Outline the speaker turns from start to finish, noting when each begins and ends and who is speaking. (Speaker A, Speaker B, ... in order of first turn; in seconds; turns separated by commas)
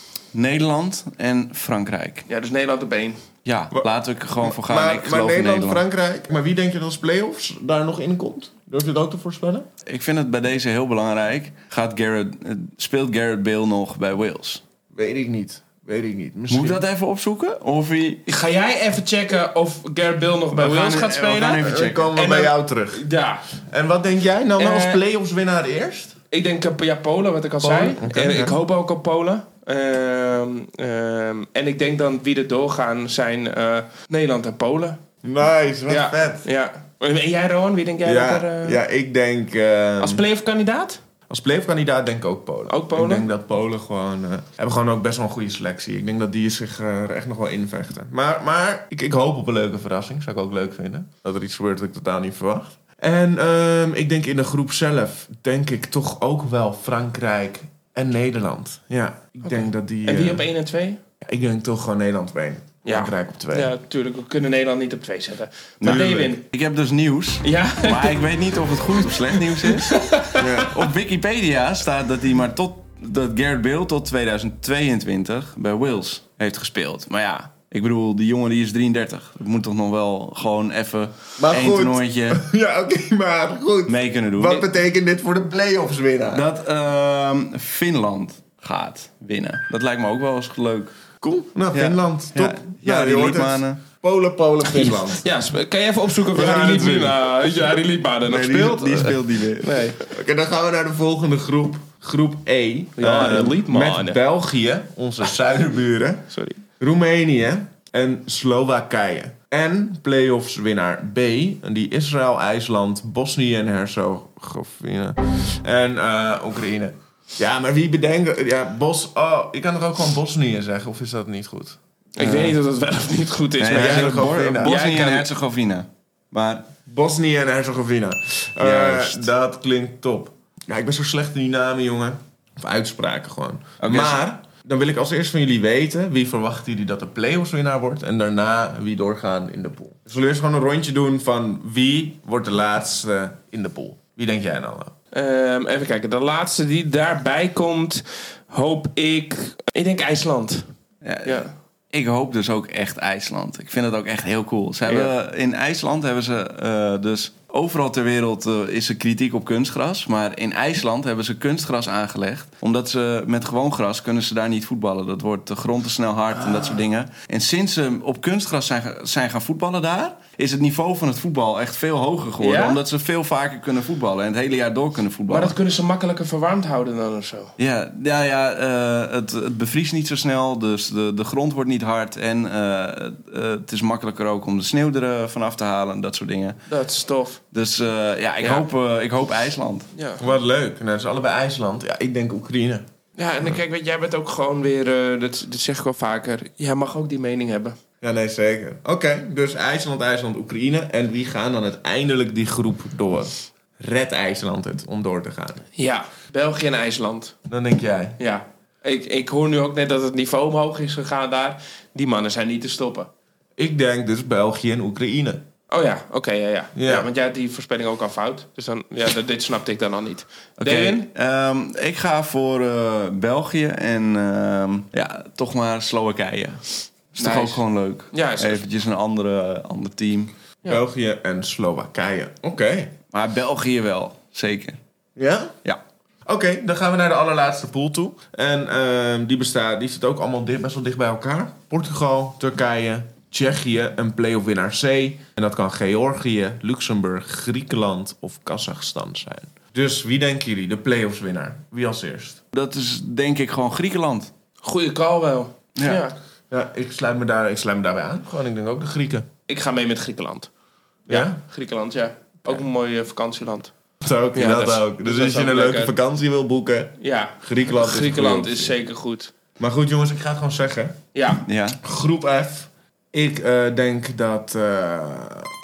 Speaker A: 0.3-2.3, Speaker B: 2.3-3.2, Speaker A: 3.4-5.8, Speaker C: 4.4-9.7, Speaker A: 9.8-14.6, Speaker C: 14.9-16.8, Speaker A: 16.5-18.2, Speaker B: 18.3-23.4, Speaker A: 20.5-22.1, Speaker C: 21.6-23.0, Speaker C: 23.7-26.1, Speaker B: 24.6-25.0, Speaker B: 26.3-35.0, Speaker C: 27.6-28.5, Speaker C: 35.2-36.4, Speaker B: 35.9-38.8, Speaker C: 38.0-40.2, Speaker B: 40.0-41.0, Speaker C: 41.3-60.4, Speaker B: 42.7-43.2, Speaker B: 59.4-61.0, Speaker C: 61.2-63.7, Speaker B: 62.8-66.4, Speaker A: 65.8-70.0, Speaker C: 65.8-66.3, Speaker B: 67.4-68.2, Speaker B: 69.1-70.7, Speaker C: 70.3-70.7, Speaker A: 70.6-82.4, Speaker C: 81.4-86.5, Speaker A: 83.8-84.6, Speaker A: 86.3-90.9, Speaker C: 91.2-95.2, Speaker A: 91.7-93.8, Speaker B: 94.6-100.0, Speaker C: 96.3-97.2, Speaker A: 98.2-99.9, Speaker C: 100.0-106.2, Speaker B: 103.0-104.2, Speaker A: 103.1-103.5, Speaker B: 106.3-106.6, Speaker C: 106.8-121.8, Speaker B: 122.2-125.3, Speaker A: 122.2-122.5, Speaker A: 123.6-126.7, Speaker C: 123.7-124.7, Speaker C: 126.8-144.9, Speaker A: 128.6-129.3, Speaker A: 133.8-134.2, Speaker B: 145.1-150.7, Speaker A: 151.0-175.6, Speaker B: 151.2-151.5, Speaker B: 154.8-155.1, Speaker B: 172.4-172.8, Speaker B: 175.3-177.5, Speaker A: 177.6-186.6, Speaker B: 186.7-187.4, Speaker A: 187.5-189.9, Speaker B: 188.4-188.7, Speaker B: 189.9-190.2, Speaker C: 190.2-192.8, Speaker B: 193.2-197.8, Speaker C: 198.0-205.7, Speaker B: 205.8-207.4, Speaker C: 207.5-208.2, Speaker B: 208.2-213.1, Speaker C: 213.6-215.4, Speaker B: 215.7-221.1, Speaker C: 216.8-217.1, Speaker A: 220.6-230.3, Speaker B: 227.2-228.6, Speaker C: 230.7-232.9, Speaker A: 233.1-234.8, Speaker C: 235.2-235.6, Speaker C: 236.2-252.4, Speaker A: 252.5-254.3, Speaker B: 254.6-256.1, Speaker A: 255.8-256.0, Speaker C: 256.5-259.3, Speaker B: 259.5-260.5, Speaker B: 261.1-263.7, Speaker C: 261.1-261.4, Speaker C: 264.0-268.7, Speaker B: 264.3-265.9, Speaker B: 267.0-269.3, Speaker C: 269.6-271.0, Speaker B: 271.1-271.4, Speaker A: 271.4-271.8, Speaker C: 271.8-275.5